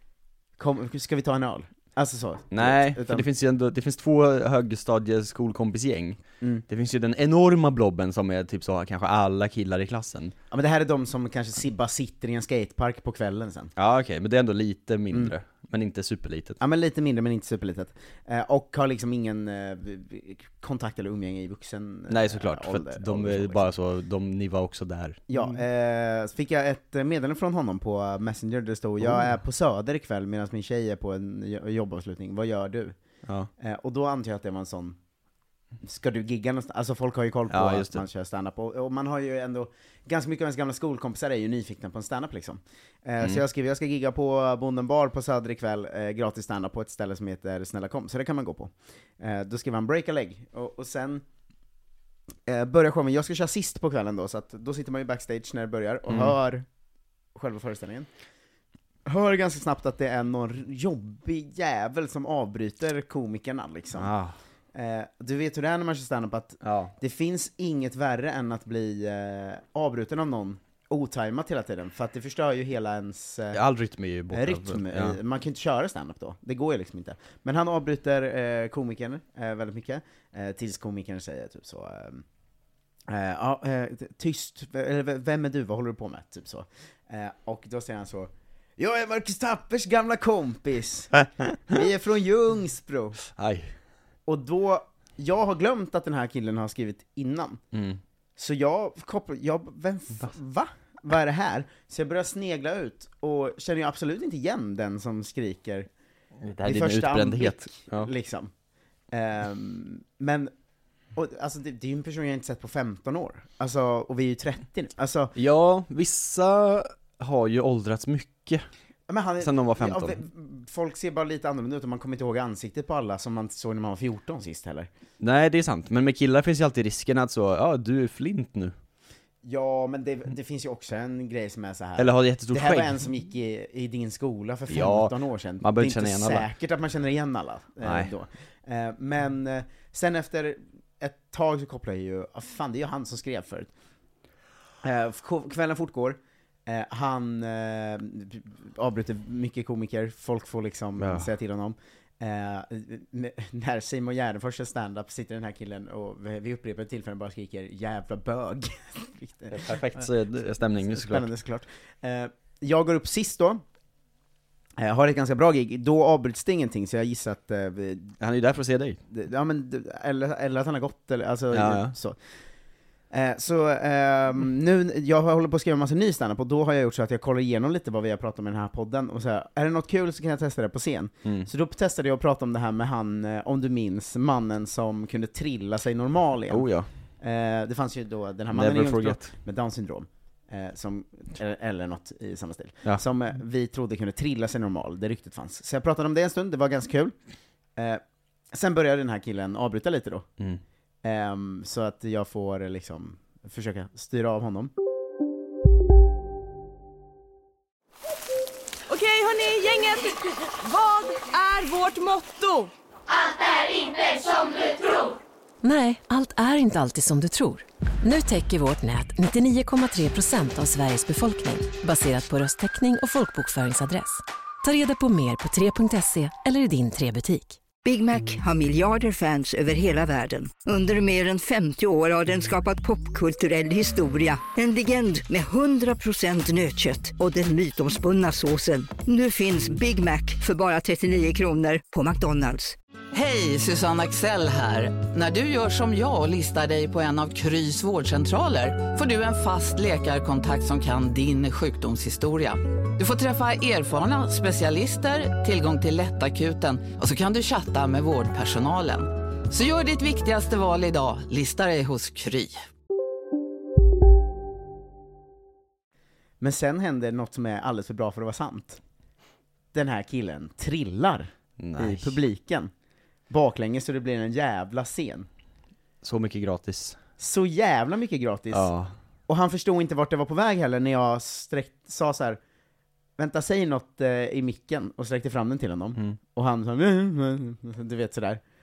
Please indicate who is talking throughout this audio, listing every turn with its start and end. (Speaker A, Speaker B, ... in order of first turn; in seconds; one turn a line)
Speaker A: 0.6-3.3
Speaker B: 2.5-10.3
Speaker A: 10.5-13.7
Speaker B: 13.8-16.6
Speaker A: 16.6-23.7
Speaker B: 22.1-25.5
Speaker A: 25.3-33.0
Speaker B: 29.0-29.3
Speaker A: 33.6-35.0
Speaker A: 35.8-51.2
Speaker B: 37.5-38.0
Speaker A: 52.5-56.6
Speaker B: 56.1-56.4
Speaker A: 57.4-58.1
Speaker A: 59.1-64.1
Speaker B: 63.9-64.3
Speaker A: 64.7-73.6
Speaker B: 66.6-66.9
Speaker B: 73.5-75.2
Speaker A: 74.3-82.2
Speaker A: 83.1-93.2
Speaker B: 93.4-93.7
Speaker A: 94.3-97.6
Speaker B: 97.7-98.0
Speaker A: 98.4-105.9
Speaker B: 106.4-108.1
Speaker A: 106.7-108.5
Speaker A: 109.1-110.5
Speaker A: 111.2-115.3
Speaker B: 115.3-118.7
Speaker A: 119.1-124.9
Speaker B: 119.4-120.2
Speaker B: 125.2-128.7
Speaker A: 129.4-143.7
Speaker B: 132.0-133.0
Speaker B: 134.7-136.5
Speaker B: 137.8-138.1
Speaker A: 144.8-160.1
Speaker B: 151.0-151.3
Speaker B: 159.5-161.3
Speaker A: 160.8-163.6
Speaker A: 164.8-168.1
Speaker B: 168.2-169.0
Speaker A: 169.1-172.2
Speaker B: 171.5-172.0
Speaker A: 173.1-186.7
Speaker B: 186.5-186.9
Speaker A: 187.2-197.2
Speaker B: 188.5-189.3
Speaker A: 198.5-200.3
Speaker A: 201.0-204.7
Speaker C: 208.9-212.7
Speaker D: 215.6-227.6
Speaker E: 227.8-242.8
Speaker F: 243.1-262.7
Speaker A: 266.4-268.8
Speaker A: 269.7-272.7
Speaker B: 271.6-272.2
Speaker A: 273.3-275.3
Speaker B: 276.0-277.0
Speaker A: 277.2-278.7
Speaker B: 278.5-278.9
Speaker A: 279.3-282.4
Speaker A: 283.2-288.4